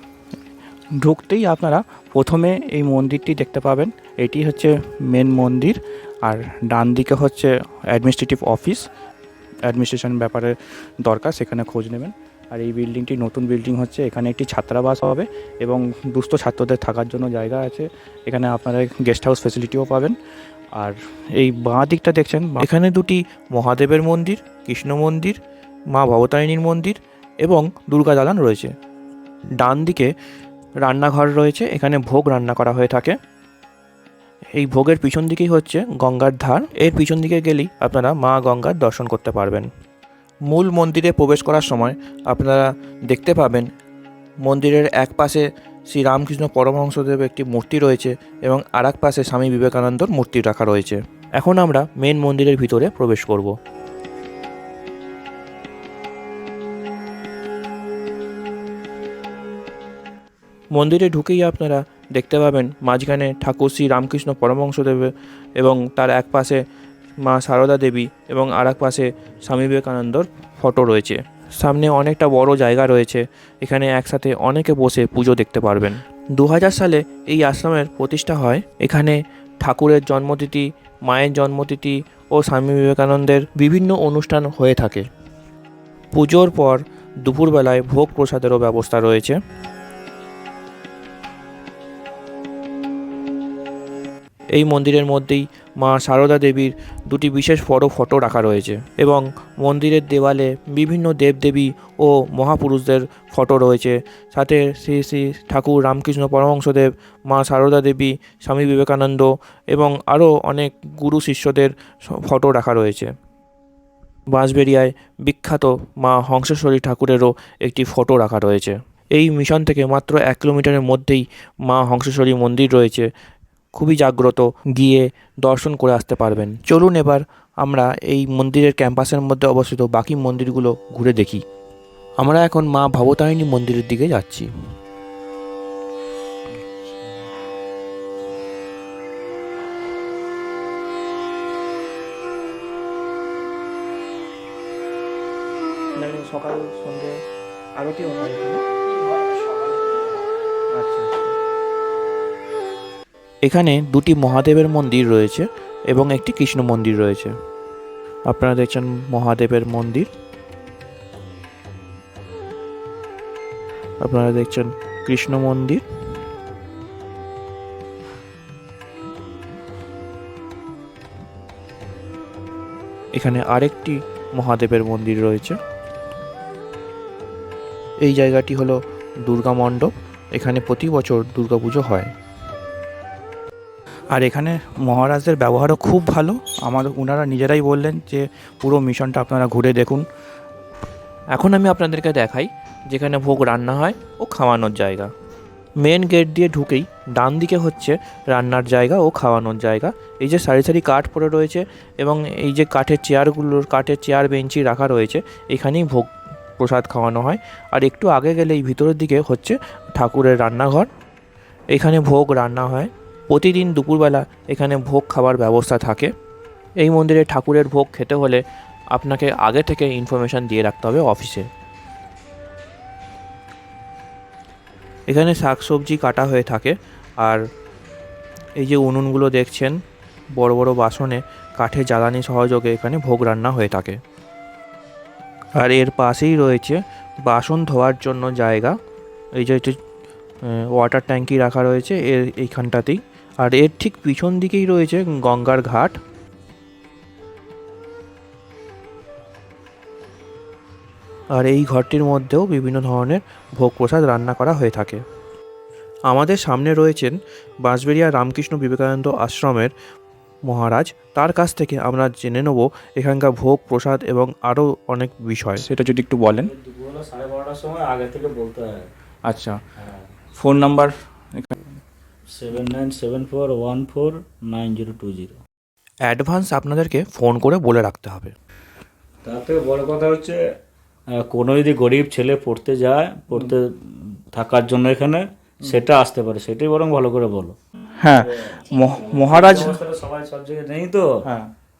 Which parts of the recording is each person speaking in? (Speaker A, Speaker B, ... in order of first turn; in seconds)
Speaker A: 1.0-8.8, 9.7-20.1, 20.8-22.6, 146.0-147.1, 147.8-148.6, 150.7-151.3, 184.1-190.0, 265.6-266.5, 269.3-269.6, 270.4-271.6, 288.0-289.8
Speaker B: 22.6-25.4, 25.9-28.7, 29.6-30.1, 30.8-33.2, 34.5-39.7, 40.5-43.7, 44.4-53.5, 60.7-66.6, 67.2-85.0, 86.1-89.4, 94.5-113.1, 114.3-123.1, 123.7-131.4, 132.2-134.5, 153.4-157.3, 158.3-160.1, 164.0-165.8, 173.2-175.6, 178.0-182.1, 191.3-195.1, 195.8-210.9, 211.7-216.1, 216.8-221.5, 225.1-227.4, 228.6-229.8, 230.3-234.0, 235.6-238.8, 239.4-239.8, 240.4-246.0, 251.3-255.0, 256.1-259.7, 260.5-265.6, 276.0-278.3
Speaker C: 266.4-268.9, 269.8-270.1, 272.3-275.4, 279.2-280.4, 281.1-287.6, 288.1-291.3